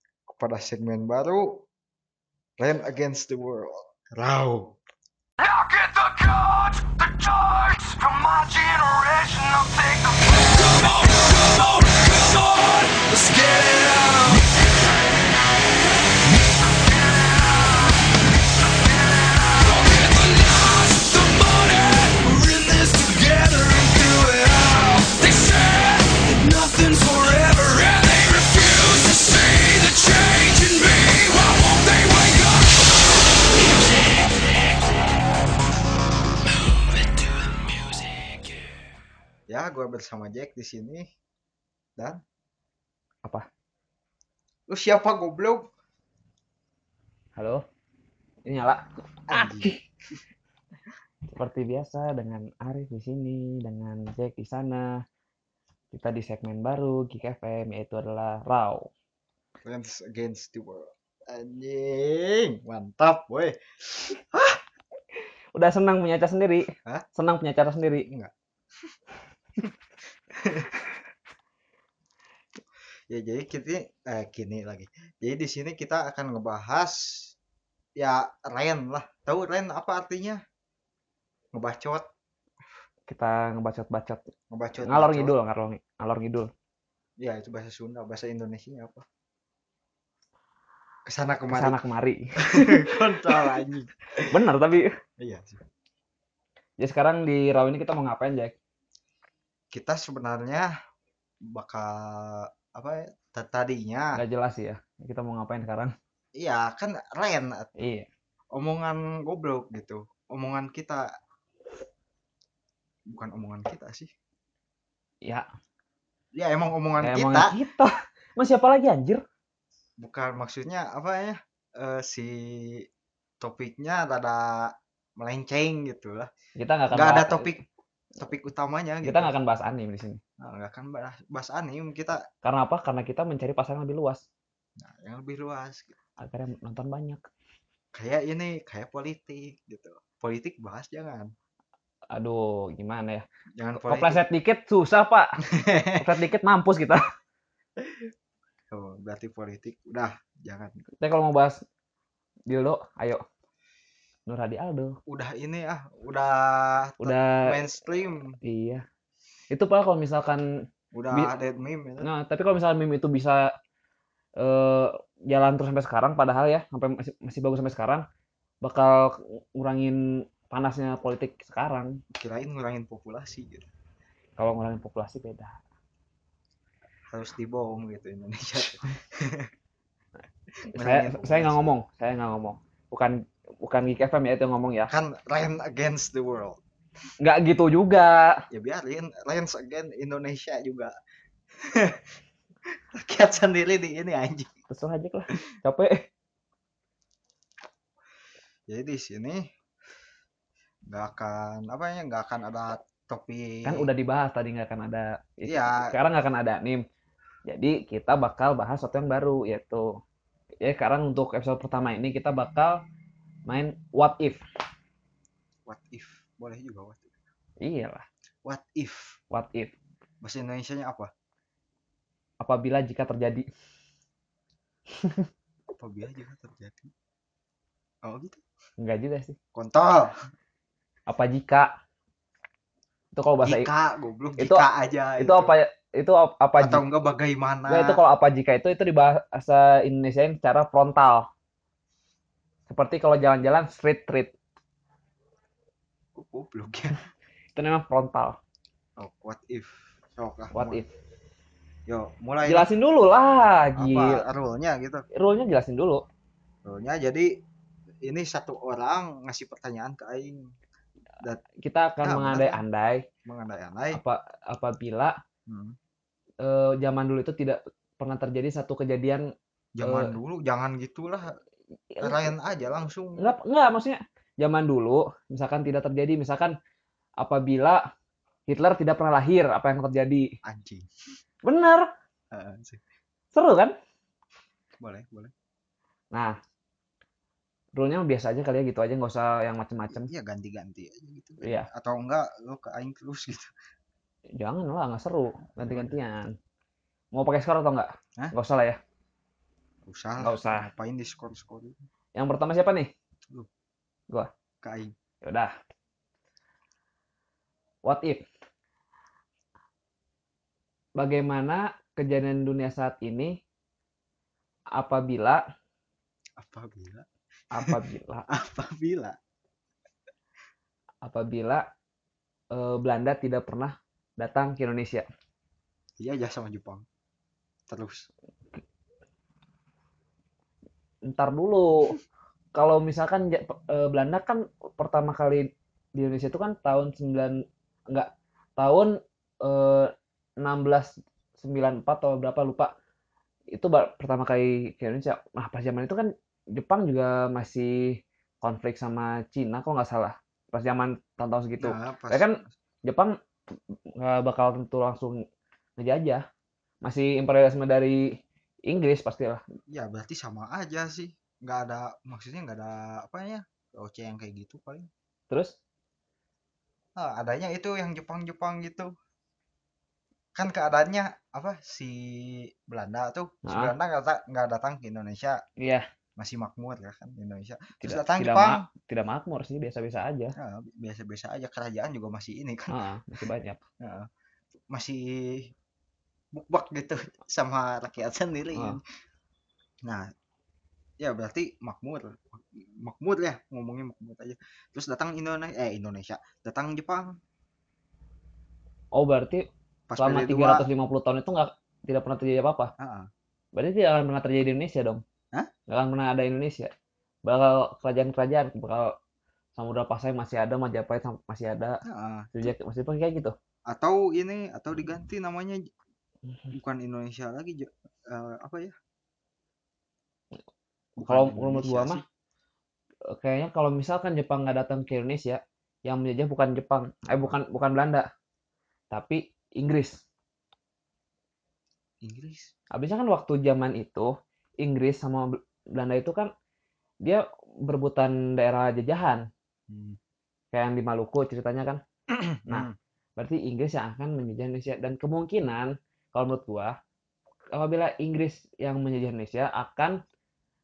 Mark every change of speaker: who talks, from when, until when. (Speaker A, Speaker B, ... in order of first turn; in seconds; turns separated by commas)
Speaker A: 0.3-1.6, Speaker A: 2.6-4.8, Speaker B: 5.4-14.6, Speaker B: 16.7-17.9, Speaker B: 18.8-32.9, Speaker B: 33.5-34.6, Speaker B: 37.7-38.0, Speaker A: 39.5-41.0, Speaker A: 44.7-45.7, Speaker C: 47.4-47.6, Speaker C: 48.4-49.8, Speaker A: 49.3-49.7, Speaker C: 51.3-54.9, Speaker C: 55.9-58.9, Speaker A: 59.6-64.6, Speaker C: 65.5-68.1, Speaker A: 70.3-70.8, Speaker A: 73.1-77.3, Speaker A: 78.0-80.4, Speaker A: 81.5-82.0, Speaker C: 83.1-84.2, Speaker A: 84.5-85.3, Speaker C: 84.8-86.5, Speaker A: 87.2-89.0, Speaker A: 91.0-91.8, Speaker C: 91.5-93.5, Speaker A: 92.4-94.4, Speaker C: 94.2-94.9, Speaker A: 95.2-95.6, Speaker C: 96.8-98.5, Speaker A: 99.7-100.7, Speaker A: 101.5-104.2, Speaker C: 104.2-105.9, Speaker A: 106.4-107.7, Speaker C: 107.8-108.1, Speaker A: 108.5-111.0, Speaker A: 113.1-114.1, Speaker A: 116.3-117.5, Speaker C: 117.0-119.2, Speaker A: 120.0-122.9, Speaker A: 123.4-126.3, Speaker C: 126.6-127.4, Speaker A: 126.9-127.6, Speaker A: 128.2-129.3, Speaker C: 129.0-130.2, Speaker A: 130.4-132.2, Speaker C: 132.4-134.2, Speaker A: 134.8-136.0, Speaker C: 136.2-137.2, Speaker A: 137.9-141.3, Speaker C: 142.1-143.2, Speaker A: 143.6-144.2, Speaker C: 143.8-145.4, Speaker A: 145.5-146.1, Speaker C: 146.0-147.0, Speaker A: 147.8-148.1, Speaker A: 148.7-150.7, Speaker C: 151.0-151.6, Speaker C: 152.5-153.2, Speaker C: 154.3-155.0, Speaker A: 155.1-158.4, Speaker C: 157.0-157.6, Speaker C: 158.4-158.8, Speaker C: 159.5-160.4, Speaker A: 160.9-162.1, Speaker C: 162.0-163.5, Speaker C: 164.4-168.0, Speaker C: 168.6-172.0, Speaker A: 172.1-173.7, Speaker C: 174.4-175.6, Speaker A: 177.1-179.5, Speaker A: 180.7-181.7, Speaker C: 180.7-184.9, Speaker A: 184.9-186.6, Speaker C: 187.2-188.4, Speaker A: 188.5-190.9, Speaker A: 191.6-192.1, Speaker A: 192.7-194.5, Speaker C: 194.7-196.1, Speaker A: 198.7-199.4, Speaker A: 200.9-203.9, Speaker C: 203.6-206.8, Speaker A: 205.4-205.9, Speaker C: 207.5-209.9, Speaker C: 210.6-212.8, Speaker C: 213.5-214.4, Speaker A: 215.7-217.1, Speaker C: 217.6-218.1, Speaker A: 218.4-219.2, Speaker C: 219.3-219.7, Speaker A: 220.2-221.1, Speaker C: 222.4-223.4, Speaker C: 225.0-225.3, Speaker A: 225.7-226.9, Speaker A: 228.0-228.4, Speaker C: 228.8-229.3, Speaker A: 229.5-230.2, Speaker C: 231.1-231.7, Speaker C: 233.1-233.7, Speaker A: 233.4-235.5, Speaker C: 234.4-234.7, Speaker C: 235.2-236.8, Speaker A: 236.6-238.0, Speaker C: 237.7-241.3, Speaker C: 242.7-244.3, Speaker A: 246.1-247.0, Speaker C: 247.6-248.4, Speaker A: 249.0-250.8, Speaker C: 250.5-250.9, Speaker A: 251.9-252.7, Speaker C: 252.4-254.2, Speaker A: 253.8-255.0, Speaker C: 255.1-256.0, Speaker A: 256.6-257.3, Speaker A: 258.0-260.5, Speaker C: 261.6-263.0, Speaker A: 262.0-262.6, Speaker A: 263.2-264.0, Speaker C: 263.9-265.1, Speaker A: 265.5-265.8, Speaker C: 266.4-269.2, Speaker A: 269.8-271.3, Speaker C: 269.8-270.1, Speaker C: 272.0-272.3, Speaker A: 272.0-273.3, Speaker C: 273.2-276.6, Speaker C: 277.2-277.8, Speaker C: 278.5-280.3, Speaker A: 280.4-280.9, Speaker C: 281.4-281.9, Speaker A: 282.3-282.8, Speaker C: 283.3-283.7, Speaker A: 284.8-285.3, Speaker C: 287.7-290.1, Speaker A: 289.9-293.5, Speaker C: 291.4-291.7, Speaker C: 294.4-296.3, Speaker A: 295.6-295.9, Speaker C: 297.1-298.8, Speaker A: 299.9-301.8, Speaker C: 300.2-300.7, Speaker C: 302.1-302.9, Speaker A: 304.6-304.9, Speaker C: 305.2-305.5, Speaker C: 307.8-308.2, Speaker C: 311.0-313.4, Speaker C: 314.8-315.4, Speaker A: 316.4-317.1, Speaker C: 317.5-318.2, Speaker A: 318.3-319.2, Speaker C: 321.0-321.6, Speaker C: 322.5-325.1, Speaker A: 326.0-326.9, Speaker A: 327.7-328.1, Speaker C: 331.1-331.9, Speaker C: 332.5-338.9, Speaker C: 339.4-339.9, Speaker C: 340.4-342.7, Speaker C: 343.5-353.1, Speaker A: 351.6-352.5, Speaker C: 354.0-355.2, Speaker C: 355.8-356.2, Speaker C: 356.8-359.4, Speaker A: 359.7-364.9, Speaker A: 367.0-368.9, Speaker A: 370.4-375.4, Speaker C: 373.4-373.7, Speaker C: 375.6-375.9, Speaker A: 376.2-378.6, Speaker C: 377.8-380.3, Speaker A: 380.4-382.8, Speaker C: 382.7-383.6, Speaker A: 383.8-384.1, Speaker A: 384.7-385.5, Speaker A: 386.3-388.8, Speaker C: 388.5-388.8, Speaker A: 391.0-397.2, Speaker C: 398.9-399.4, Speaker A: 399.9-400.7, Speaker C: 400.0-402.7, Speaker A: 402.8-403.1, Speaker C: 403.5-405.0, Speaker C: 405.7-406.7, Speaker C: 407.2-408.9, Speaker C: 409.6-411.8, Speaker A: 411.9-412.5, Speaker C: 412.3-413.3, Speaker A: 413.7-415.6, Speaker A: 416.5-418.7, Speaker A: 421.0-422.0, Speaker C: 421.0-422.0, Speaker C: 423.2-428.1, Speaker A: 427.1-427.4, Speaker C: 428.9-430.0, Speaker A: 432.0-432.5, Speaker C: 432.7-436.3, Speaker C: 437.0-439.2, Speaker A: 439.7-440.0, Speaker C: 440.5-441.8, Speaker A: 442.1-442.7, Speaker C: 442.5-446.8, Speaker C: 447.5-450.0